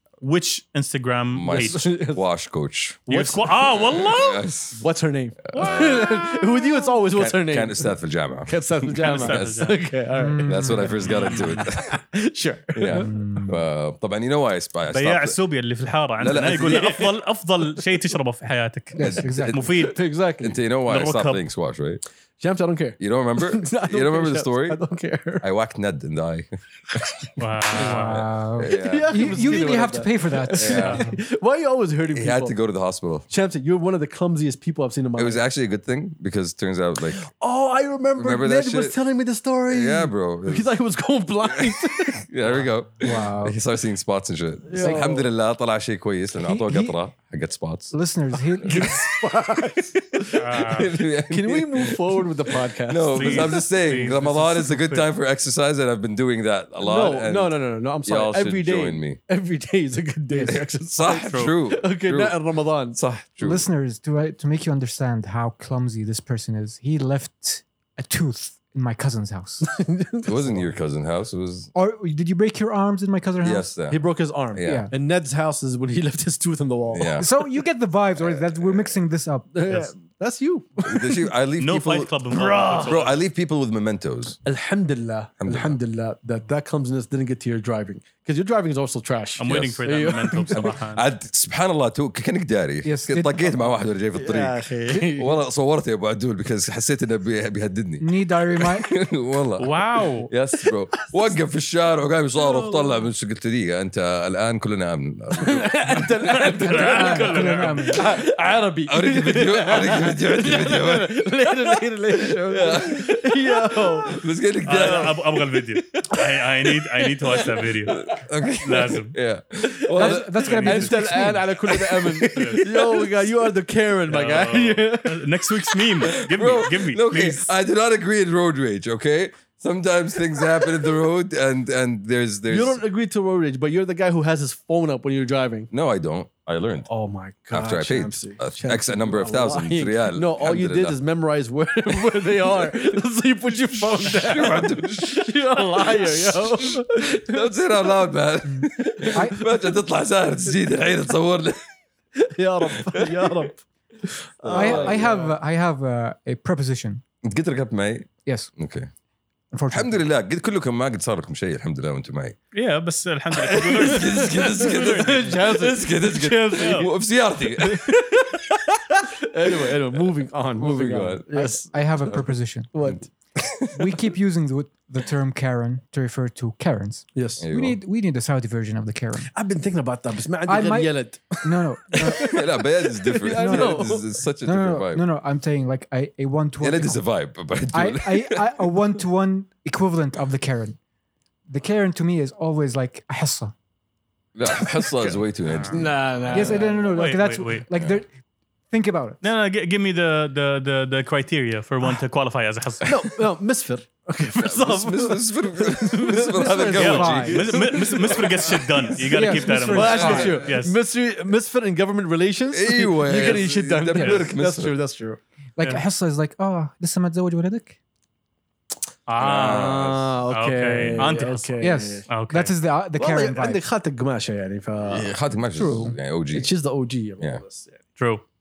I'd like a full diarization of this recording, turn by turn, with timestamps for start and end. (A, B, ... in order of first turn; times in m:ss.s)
0:00.2-0:01.9 A
0:01.3-0:03.1 B
0:01.5-0:02.2 C
0:03.1-0:03.4 C
0:03.1-0:04.5 A
0:03.6-0:04.8 B
0:04.8-0:13.1 C
0:05.5-0:06.3 B
0:07.1-0:09.7 B
0:09.0-0:09.8 A
0:10.1-0:11.0 D
0:10.4-0:12.0 B
0:11.0-0:11.7 A
0:12.7-0:15.4 B
0:12.9-0:13.6 D
0:14.9-0:20.0 A
0:16.2-0:17.0 B
0:16.6-0:17.1 C
0:18.9-0:19.6 D
0:19.0-0:19.8 B
0:19.6-0:20.6 C
0:20.4-0:22.0 B
0:20.9-0:21.4 A
0:22.4-0:25.4 C
0:23.0-0:24.8 B
0:25.4-0:27.0 B
0:27.4-0:28.2 A
0:27.7-0:29.7 B
0:27.8-0:31.1 D
0:28.6-0:32.5 C
0:30.5-0:31.0 B
0:30.7-0:31.0 A
0:32.1-0:33.3 B
0:33.3-0:35.4 C
0:35.2-0:37.2 B
0:37.1-0:42.2 C
0:38.1-0:39.0 B
0:39.7-0:40.7 B
0:41.4-0:47.9 B
0:43.0-0:43.6 D
0:44.7-0:45.3 C
0:46.3-0:47.0 D
0:47.9-0:49.0 D
0:48.6-0:53.6 C
0:48.6-0:49.4 B
0:50.3-0:50.9 A
0:50.5-0:59.2 B
0:53.1-0:55.1 A
0:56.8-1:03.0 C
1:00.3-1:00.6 D
1:00.4-1:02.4 B
1:01.2-1:01.5 A
1:02.9-1:03.6 B
1:03.4-1:09.7 D
1:09.6-1:10.7 C
1:10.2-1:11.7 B
1:11.7-1:13.7 D
1:13.4-1:14.0 B
1:13.9-1:17.2 C
1:14.5-1:14.9 B
1:14.6-1:14.9 D
1:16.9-1:17.3 B
1:17.2-1:19.8 D
1:18.2-1:19.0 B
1:19.5-1:21.3 C
1:20.8-1:24.4 B
1:21.6-1:23.2 A
1:22.3-1:23.0 C
1:24.4-1:30.7 C
1:25.4-1:25.8 B
1:29.4-1:31.1 A
1:29.4-1:29.8 B
1:30.5-1:46.8 B
1:32.8-1:33.6 D
1:34.2-1:35.4 C
1:38.0-1:38.9 D
1:39.6-1:40.3 A
1:40.9-1:41.3 C
1:42.4-1:43.0 C
1:45.4-1:54.2 C
1:46.2-1:48.0 A
1:46.7-1:48.0 D
1:48.8-1:55.2 B
1:54.6-1:58.1 A
1:54.8-1:55.2 C
1:55.8-1:58.0 C
1:57.9-2:00.8 B
1:58.6-1:59.1 A
2:00.0-2:01.5 D
2:00.0-2:05.8 C
2:00.4-2:01.0 A
2:01.6-2:03.4 B
2:02.3-2:02.7 A
2:04.1-2:07.5 A
2:06.0-2:12.8 B
2:12.5-2:15.7 C
2:15.7-2:16.9 B
2:16.9-2:27.5 C
2:17.5-2:21.0 B
2:21.9-2:22.7 B
2:23.7-2:31.7 B
2:28.4-2:29.4 D
2:29.0-2:29.6 C
2:32.2-2:35.3 C
2:32.7-2:33.5 B
2:34.4-2:35.1 B
2:34.5-2:37.0 D
2:37.2-2:38.9 B
2:39.5-2:40.1 D
2:39.7-2:42.4 B
2:42.5-2:45.2 A
2:43.3-2:51.2 B
2:43.8-2:46.9 C
2:46.6-2:46.9 A
2:47.5-2:48.4 C
2:49.2-2:51.7 C
2:51.3-2:52.7 D
2:52.7-2:53.1 C
2:52.8-2:53.9 B
2:53.7-2:59.3 D
2:57.1-2:57.4 C
2:57.4-2:57.8 B
2:59.3-3:04.1 C
3:00.4-3:02.4 D
3:02.1-3:05.0 B
3:03.2-3:07.0 D
3:06.6-3:08.7 B
3:07.7-3:10.8 D
3:11.5-3:13.5 D
3:14.3-3:16.6 B
3:15.5-3:15.8 A
3:15.6-3:16.9 C
3:16.3-3:18.1 D
3:16.8-3:17.6 A
3:18.7-3:19.2 D
3:19.2-3:23.0 A
3:22.8-3:35.2 C
3:24.4-3:28.8 B
3:26.4-3:27.4 D
3:26.8-3:30.8 A
3:29.0-3:30.4 D
3:30.0-3:30.3 B
3:32.5-3:34.8 B
3:35.6-3:37.8 D
3:39.1-3:41.6 A
3:39.2-3:40.2 B
3:39.3-3:42.0 C
3:41.6-3:43.6 D
3:42.1-3:42.5 A
3:43.0-3:45.1 C
3:44.8-3:46.5 B
3:45.5-3:45.9 D
3:46.3-3:47.8 C
3:48.0-3:48.2 A